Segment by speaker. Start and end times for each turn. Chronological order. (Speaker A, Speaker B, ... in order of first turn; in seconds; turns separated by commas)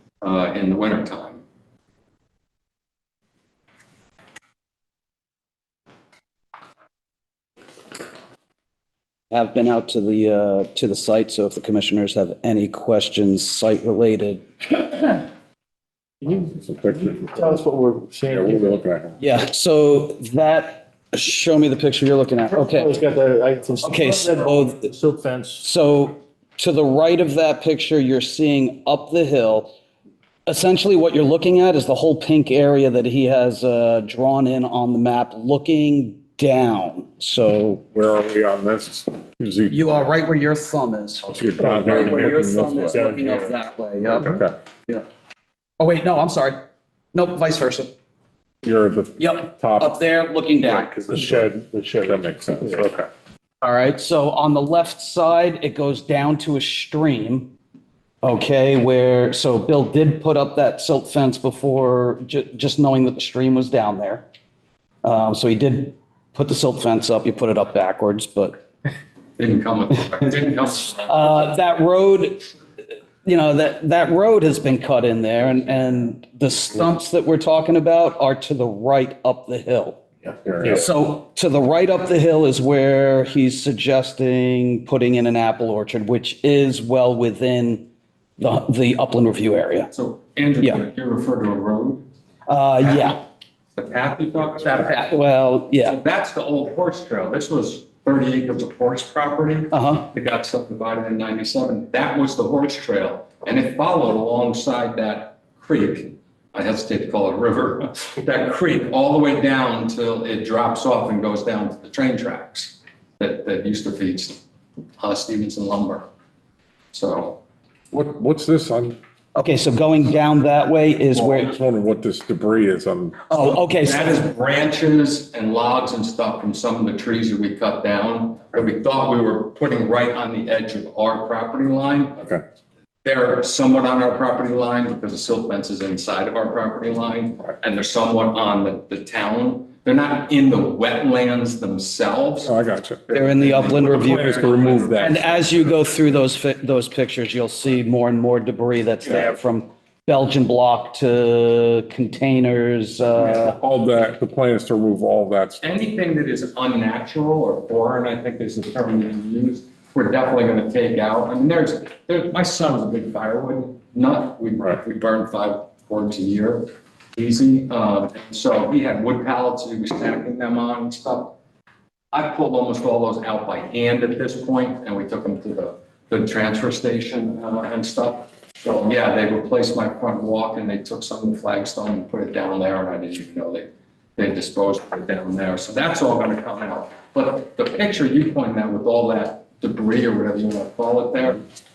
Speaker A: 0.2-1.4, Speaker B: 9.3-14.5, Speaker C: 16.4-17.6, Speaker D: 17.1-18.8, Speaker C: 18.3-19.2, Speaker B: 19.2-23.0, Speaker D: 22.5-25.6, Speaker B: 23.8-24.9, Speaker B: 25.6-29.7, Speaker B: 30.5-37.8, Speaker C: 37.9-39.9, Speaker B: 39.7-45.0, Speaker C: 41.3-43.1, Speaker D: 41.6-43.5, Speaker C: 44.1-44.5, Speaker B: 45.8-46.6, Speaker B: 47.1-47.9, Speaker C: 48.6-50.0, Speaker B: 49.2-51.5, Speaker D: 50.8-52.8, Speaker C: 51.1-51.5, Speaker C: 52.0-53.1, Speaker B: 53.6-57.5, Speaker B: 58.2-64.2, Speaker B: 65.0-68.6, Speaker A: 69.4-71.4, Speaker B: 71.0-72.5, Speaker B: 73.2-80.1, Speaker C: 80.4-80.8, Speaker B: 80.6-87.8, Speaker B: 88.4-89.9, Speaker A: 89.9-92.1, Speaker B: 92.5-93.2, Speaker A: 92.8-93.2, Speaker A: 93.8-95.1, Speaker B: 94.7-96.0, Speaker A: 95.8-114.4, Speaker B: 99.7-100.1, Speaker A: 115.0-116.1, Speaker A: 116.9-117.4, Speaker C: 117.9-119.0, Speaker B: 119.3-121.5, Speaker C: 121.2-123.2, Speaker B: 123.3-124.2, Speaker A: 123.7-132.3, Speaker A: 133.0-142.5, Speaker C: 142.4-143.1, Speaker A: 143.1-145.7, Speaker B: 143.1-144.3, Speaker C: 143.9-145.2, Speaker B: 145.0-153.6, Speaker C: 153.2-155.7, Speaker A: 155.6-171.3, Speaker A: 172.1-191.4